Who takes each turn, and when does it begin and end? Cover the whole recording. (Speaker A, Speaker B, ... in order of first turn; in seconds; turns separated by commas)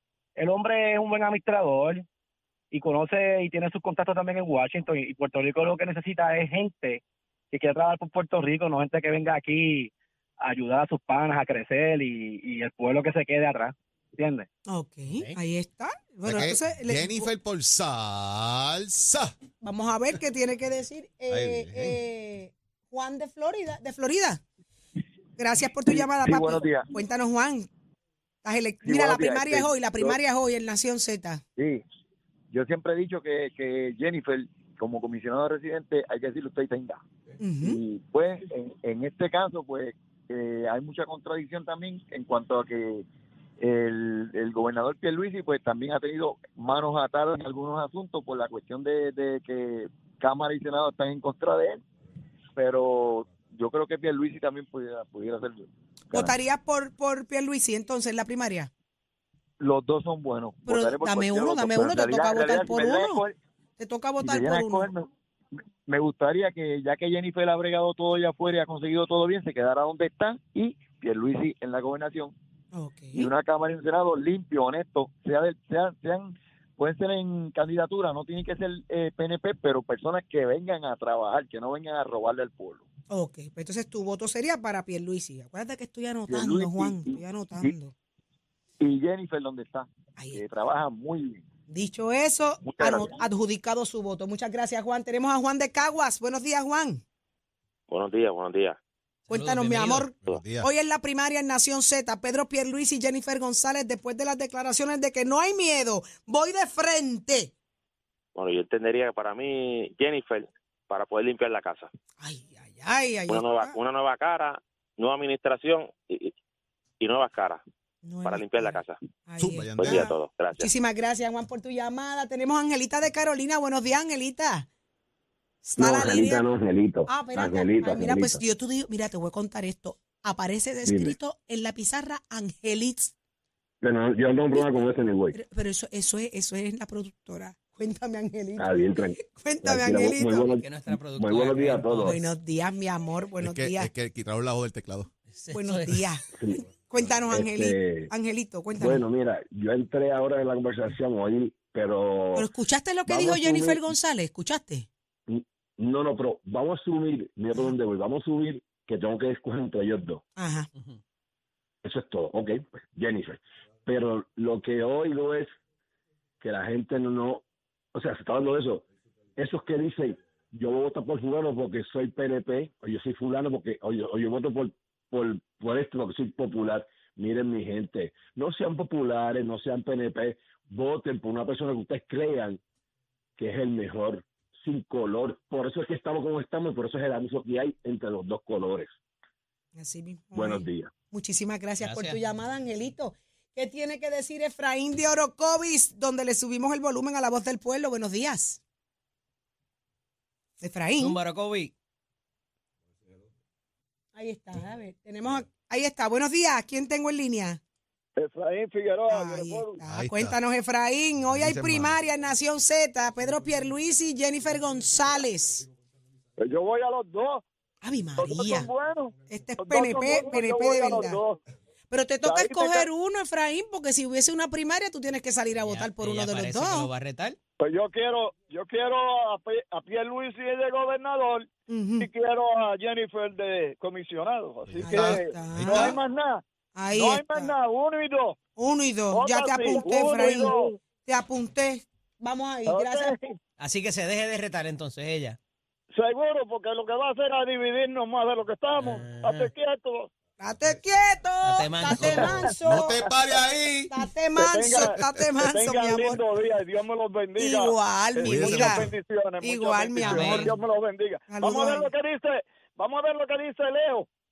Speaker A: 0.4-2.0, Speaker A: 2.7-14.5, Speaker B: 14.7-17.3, Speaker C: 16.2-19.4, Speaker B: 19.6-24.4, Speaker C: 21.3-22.0, Speaker B: 25.4-27.7, Speaker D: 26.0-26.9, Speaker B: 28.4-31.4, Speaker D: 28.8-30.2, Speaker D: 31.6-31.8, Speaker D: 32.5-37.0, Speaker B: 37.4-37.8, Speaker D: 37.6-43.1, Speaker D: 43.6-51.8, Speaker D: 52.5-56.3, Speaker B: 56.1-58.7, Speaker D: 59.6-63.4, Speaker B: 60.7-63.2, Speaker B: 63.8-64.9, Speaker D: 64.2-65.1, Speaker D: 65.9-72.3, Speaker B: 72.7-73.3, Speaker D: 73.1-82.8, Speaker B: 83.1-87.9, Speaker D: 86.3-87.7, Speaker D: 88.8-91.5, Speaker B: 90.2-90.5, Speaker B: 91.7-97.0, Speaker D: 92.6-93.2, Speaker E: 97.9-98.8, Speaker B: 99.3-107.5, Speaker F: 99.3-100.1, Speaker C: 100.3-100.7, Speaker E: 108.3-111.9, Speaker B: 112.2-113.8, Speaker E: 113.3-116.3, Speaker E: 117.0-117.6, Speaker B: 118.0-124.7, Speaker E: 118.2-119.0, Speaker C: 119.4-120.1, Speaker E: 119.8-120.7, Speaker B: 125.6-126.5, Speaker G: 125.8-128.4, Speaker B: 127.1-133.1, Speaker G: 130.8-131.1, Speaker G: 133.8-135.3, Speaker B: 135.3-140.5, Speaker G: 138.6-142.2, Speaker F: 140.5-142.2, Speaker B: 142.0-143.9, Speaker C: 143.4-145.1, Speaker F: 145.3-146.0, Speaker B: 145.5-149.0, Speaker G: 146.3-146.7, Speaker G: 147.3-148.1, Speaker G: 148.8-152.5, Speaker B: 152.3-154.9, Speaker G: 153.1-153.8, Speaker G: 155.3-160.2, Speaker B: 160.4-160.7, Speaker G: 161.8-165.5, Speaker G: 166.4-167.4, Speaker G: 167.9-168.8, Speaker G: 169.4-182.6, Speaker G: 183.4-188.9, Speaker B: 189.8-198.6, Speaker G: 190.3-190.9, Speaker F: 191.8-192.2, Speaker B: 200.6-201.2, Speaker F: 201.0-201.7, Speaker B: 204.2-207.6, Speaker H: 208.2-209.8, Speaker B: 209.1-215.7, Speaker C: 209.9-210.4, Speaker C: 211.3-212.0, Speaker H: 216.4-217.4, Speaker B: 217.8-218.7, Speaker H: 218.2-221.4, Speaker B: 219.3-221.2, Speaker B: 221.9-226.9, Speaker H: 222.2-222.9, Speaker F: 225.6-227.4, Speaker H: 227.6-238.4, Speaker B: 231.7-232.1, Speaker C: 234.7-236.0, Speaker B: 234.8-236.0, Speaker B: 236.8-237.5, Speaker B: 238.6-243.2, Speaker H: 239.1-240.8, Speaker H: 242.7-243.4, Speaker F: 243.6-245.4, Speaker H: 245.9-250.1, Speaker F: 248.8-249.5, Speaker B: 250.4-253.0, Speaker F: 251.4-252.4, Speaker C: 252.0-253.9, Speaker B: 253.9-256.2, Speaker H: 254.3-264.1, Speaker B: 257.4-260.5, Speaker C: 258.2-258.9, Speaker F: 260.0-260.6, Speaker B: 261.3-261.9